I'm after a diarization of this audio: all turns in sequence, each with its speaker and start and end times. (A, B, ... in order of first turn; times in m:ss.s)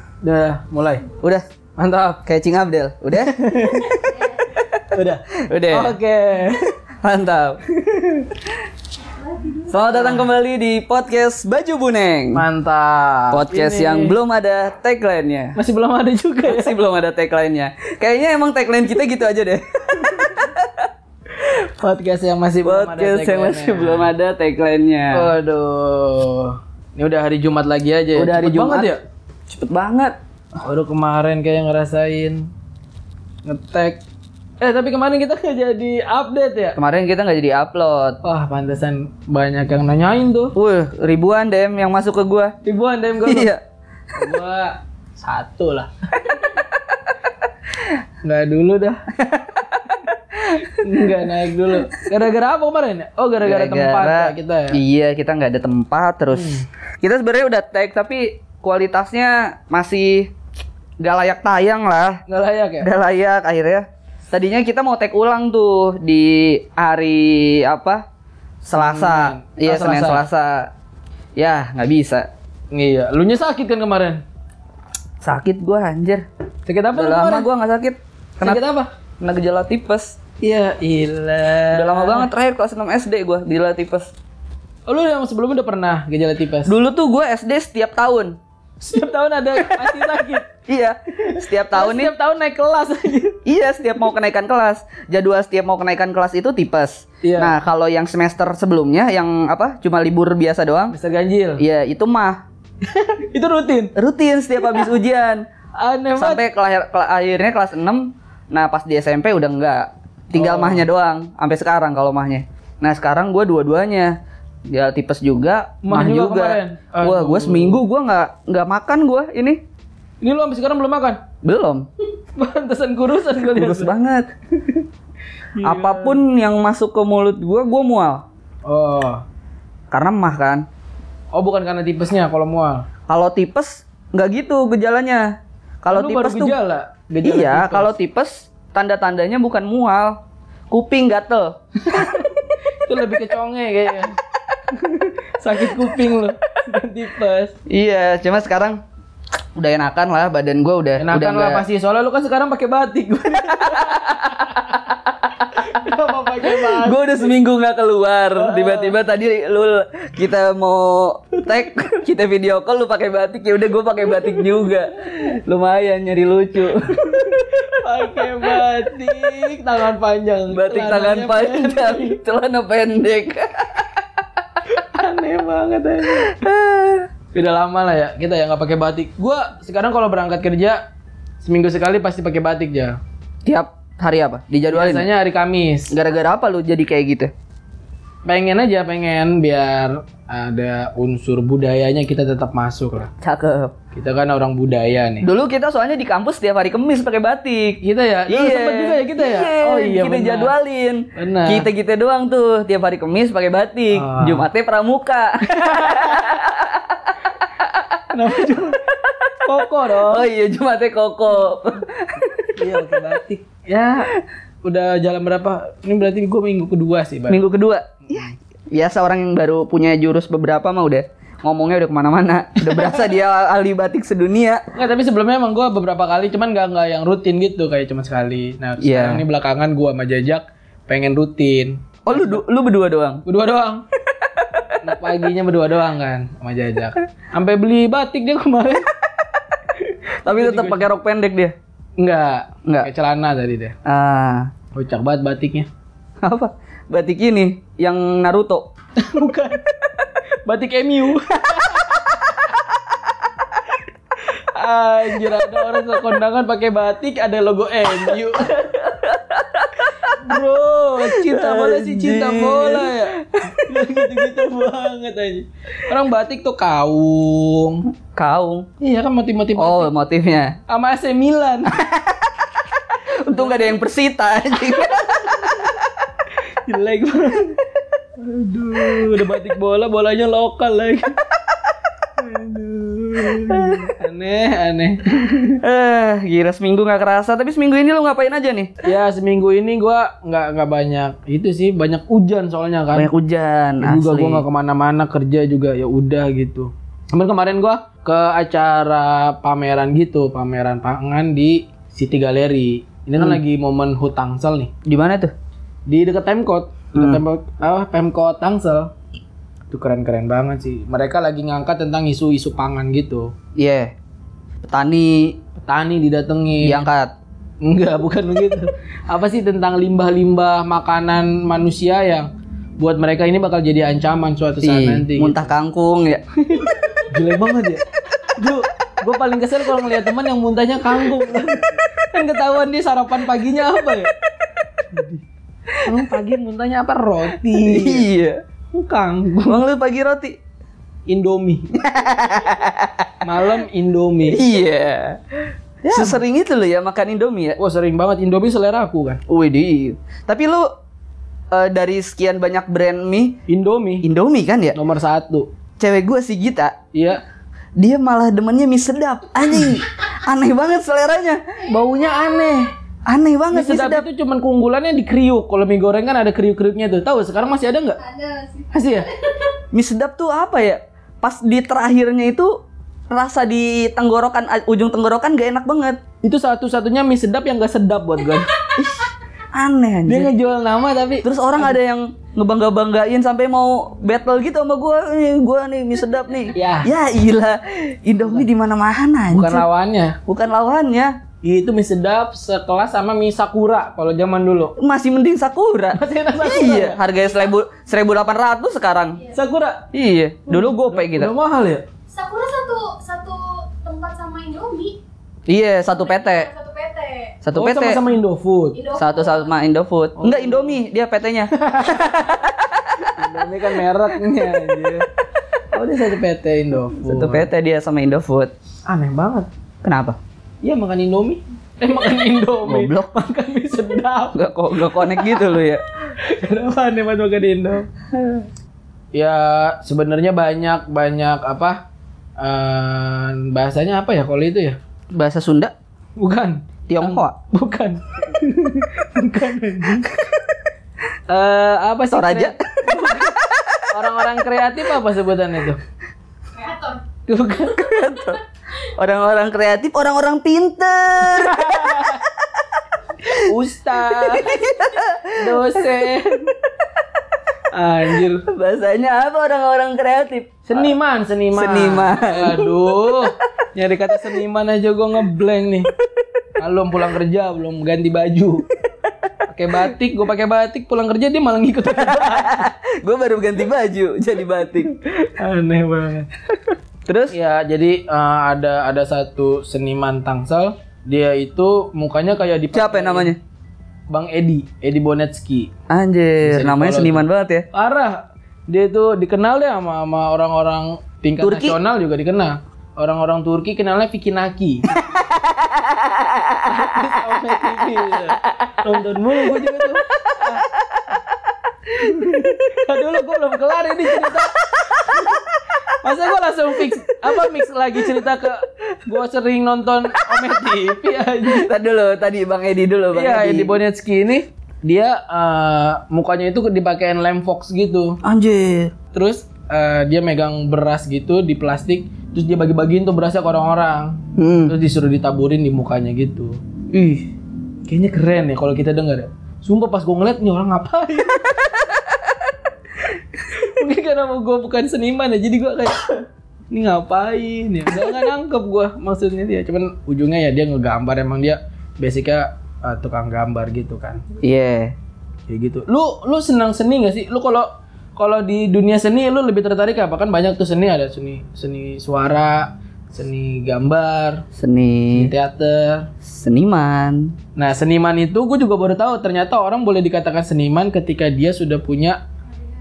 0:00.2-0:01.1 A
0:01.8-0:02.2 A
0:02.2-0:04.0 B
0:03.1-0:04.1 A
0:03.9-0:04.4 C
0:04.9-0:06.7 A
0:05.4-0:05.9 B
0:07.0-0:07.6 B
0:07.7-0:08.4 A
0:09.2-0:09.7 C
0:09.7-0:12.4 B
0:09.9-0:10.3 A
0:12.3-0:14.2 A
0:13.3-0:15.6 B
0:15.6-0:16.8 A
0:16.4-0:20.9 B
0:21.3-0:24.1 A
0:22.6-0:25.3 B
0:25.1-0:29.0 A
0:28.2-0:28.9 B
0:29.5-0:30.2 B
0:30.6-0:32.5 A
0:33.4-0:34.0 A
0:34.6-0:36.8 A
0:36.8-0:38.2 B
0:38.2-0:40.5 A
0:40.6-0:42.6 B
0:42.6-0:43.5 A
0:43.2-0:43.6 B
0:44.1-0:45.9 A
0:48.2-0:49.0 A
0:49.3-0:50.7 B
0:50.7-0:54.8 A
0:53.4-1:00.3 B
0:56.3-0:56.6 A
1:01.0-1:02.2 B
1:02.3-1:02.9 A
1:02.8-1:08.0 B
1:08.6-1:10.7 B
1:08.7-1:10.2 A
1:11.4-1:12.3 B
1:12.7-1:14.2 A
1:15.2-1:16.2 B
1:16.6-1:17.5 A
1:16.9-1:18.6 B
1:18.4-1:18.9 A
1:19.2-1:20.2 B
1:20.4-1:22.3 A
1:21.7-1:24.1 B
1:24.9-1:26.7 A
1:26.7-1:28.4 B
1:28.8-1:30.5 A
1:29.6-1:30.0 B
1:30.6-1:32.1 B
1:31.2-1:33.4 A
1:33.4-1:40.9 B
1:37.2-1:37.5 A
1:40.9-1:41.6 A
1:41.6-1:42.4 B
1:42.8-1:43.9 A
1:44.0-1:45.4 B
1:44.6-1:44.9 A
1:45.8-1:46.4 A
1:46.2-1:54.2 B
1:50.3-1:50.8 A
1:54.7-1:59.6 B
1:55.8-1:57.8 A
2:00.2-2:01.2 A
2:01.4-2:01.8 B
2:02.4-2:03.9 A
2:03.5-2:04.3 B
2:04.5-2:04.9 A
2:05.6-2:06.2 A
2:05.6-2:08.2 B
2:08.6-2:09.2 A
2:09.9-2:10.6 B
2:11.3-2:12.8 A
2:13.1-2:16.6 B
2:15.9-2:17.9 A
2:17.2-2:20.2 B
2:20.7-2:21.6 B
2:21.8-2:22.3 A
2:22.8-2:24.2 A
2:24.7-2:27.5 A
2:27.7-2:28.8 B
2:29.6-2:31.6 B
2:31.0-2:34.6 A
2:33.5-2:35.6 B
2:35.5-2:37.4 A
2:36.5-2:47.3 B
2:38.4-2:39.0 A
2:46.9-2:52.2 A
2:50.5-2:53.9 B
2:54.7-2:56.3 A
2:56.1-2:57.1 B
2:57.3-3:00.8 A
3:01.4-3:03.0 A
3:03.4-3:05.1 B
3:04.7-3:05.9 A
3:05.9-3:07.3 B
3:08.2-3:13.1 A
3:13.2-3:13.7 B
3:13.9-3:15.3 A
3:15.2-3:28.0 B
3:17.8-3:20.5 A
3:21.1-3:21.7 A
3:23.9-3:24.5 A
3:25.5-3:26.2 A
3:28.1-3:28.8 A
3:29.4-3:30.3 A
3:30.0-3:33.1 B
3:32.6-3:34.1 A
3:34.6-3:37.4 A
3:37.3-3:44.6 B
3:42.6-3:43.1 A
3:44.7-3:52.4 A
3:48.8-3:49.2 B
3:52.0-3:53.2 B
3:53.2-3:53.8 A
3:54.2-3:54.8 B
3:54.8-3:58.9 A
3:59.7-4:00.9 A
4:00.2-4:01.5 B
4:02.0-4:03.8 A
4:03.8-4:04.5 B
4:04.7-4:05.7 A
4:06.2-4:08.7 B
4:09.0-4:09.7 A
4:10.4-4:12.6 A
4:14.3-4:18.6 A
4:18.4-4:20.2 B
4:20.1-4:27.8 A
4:21.0-4:23.6 B
4:28.1-4:28.7 B
4:28.8-4:29.9 A
4:29.6-4:30.6 B
4:30.7-4:31.7 A
4:31.7-4:32.3 B
4:32.9-4:35.8 B
4:33.3-4:33.8 A
4:36.6-4:37.6 A
4:38.2-4:41.2 A
4:42.2-4:45.6 A
4:43.5-4:43.9 B
4:45.6-4:48.7 B
4:48.8-4:53.1 A
4:52.9-4:54.4 B
4:53.8-5:04.7 A
5:04.8-5:05.3 B
5:05.9-5:08.9 A
5:06.9-5:07.2 B
5:09.7-5:13.3 A
5:13.6-5:13.9 B
5:14.7-5:15.4 B
5:15.6-5:16.9 A
5:16.6-5:17.1 B
5:17.6-5:25.5 A
5:24.6-5:26.2 B
5:26.5-5:34.1 A
5:34.9-5:35.2 A
5:35.8-5:38.1 A
5:37.5-5:38.4 B
5:38.7-5:39.6 A
5:39.5-5:40.4 B
5:41.1-5:41.7 A
5:41.8-5:43.1 B
5:43.2-5:44.4 A
5:44.3-5:47.6 B
5:45.8-5:46.2 A
5:47.6-5:49.2 A
5:49.3-5:50.7 B
5:51.5-5:53.4 B
5:53.5-5:54.0 A
5:54.0-5:54.8 B
5:54.7-5:55.5 A
5:55.8-5:56.8 B
5:56.9-5:57.2 A
5:57.8-6:01.4 B
6:01.7-6:02.7 A
6:03.1-6:04.0 B
6:03.5-6:08.0 A
6:08.0-6:08.7 C
6:08.7-6:09.1 A
6:09.7-6:16.0 B
6:16.2-6:18.5 A
6:18.7-6:20.3 B
6:20.0-6:21.7 A
6:21.2-6:29.6 B
6:26.5-6:26.9 A
6:29.3-6:30.2 A
6:30.3-6:31.2 B
6:31.4-6:34.7 A
6:34.8-6:39.2 B
6:35.9-6:37.0 A
6:39.3-6:39.8 A
6:39.9-6:41.3 B
6:40.5-6:41.8 A
6:42.1-6:45.0 C
6:45.5-6:46.5 B
6:45.9-6:47.4 C
6:47.4-6:48.0 B
6:47.5-6:48.8 A
6:48.7-6:49.5 C
6:48.9-6:53.2 B
6:50.2-6:50.8 A
6:51.6-6:52.1 A
6:53.2-6:55.1 A
6:55.7-6:57.5 A
6:57.0-6:58.5 B
6:58.8-6:59.5 A
6:59.8-7:00.2 B
7:00.6-7:05.5 A
7:02.6-7:03.1 B
7:04.3-7:05.8 B
7:06.1-7:07.9 A
7:09.1-7:11.8 A
7:12.4-7:14.8 A
7:15.1-7:15.7 B
7:16.2-7:20.2 A
7:16.9-7:17.4 B
7:21.3-7:23.4 A
7:22.1-7:23.9 B
7:23.9-7:25.8 A
7:26.5-7:27.0 C
7:27.3-7:28.0 A
7:27.6-7:32.1 B
7:31.3-7:32.2 A
7:33.4-7:34.7 A
7:34.1-7:36.0 B
7:35.3-7:36.5 A
7:37.7-7:38.4 A
7:38.4-7:40.9 B
7:40.7-7:45.9 A
7:41.5-7:42.7 B
7:46.6-7:48.6 A
7:49.5-7:52.6 A
7:52.0-7:54.9 B
7:54.9-7:56.4 A
7:57.1-7:57.3 B
7:57.3-8:03.3 A
8:02.7-8:03.4 B
8:04.1-8:05.7 A
8:05.9-8:07.7 B
8:06.4-8:15.0 A
8:11.4-8:11.8 B
8:15.0-8:16.9 B
8:16.6-8:20.6 A
8:18.1-8:18.8 B
8:20.3-8:21.1 B
8:21.9-8:31.7 A
8:24.9-8:25.4 B
8:31.4-8:33.7 B
8:33.1-8:38.2 A
8:38.2-8:38.9 B
8:39.1-8:46.6 A
8:44.4-8:44.7 B
8:46.9-8:47.2 B
8:47.8-8:51.6 A
8:53.3-8:56.1 A
8:56.7-9:04.2 A
9:04.4-9:04.9 B
9:05.5-9:14.4 A
9:14.6-9:15.3 B
9:15.1-9:16.1 A
9:16.2-9:17.3 B
9:17.6-9:22.2 A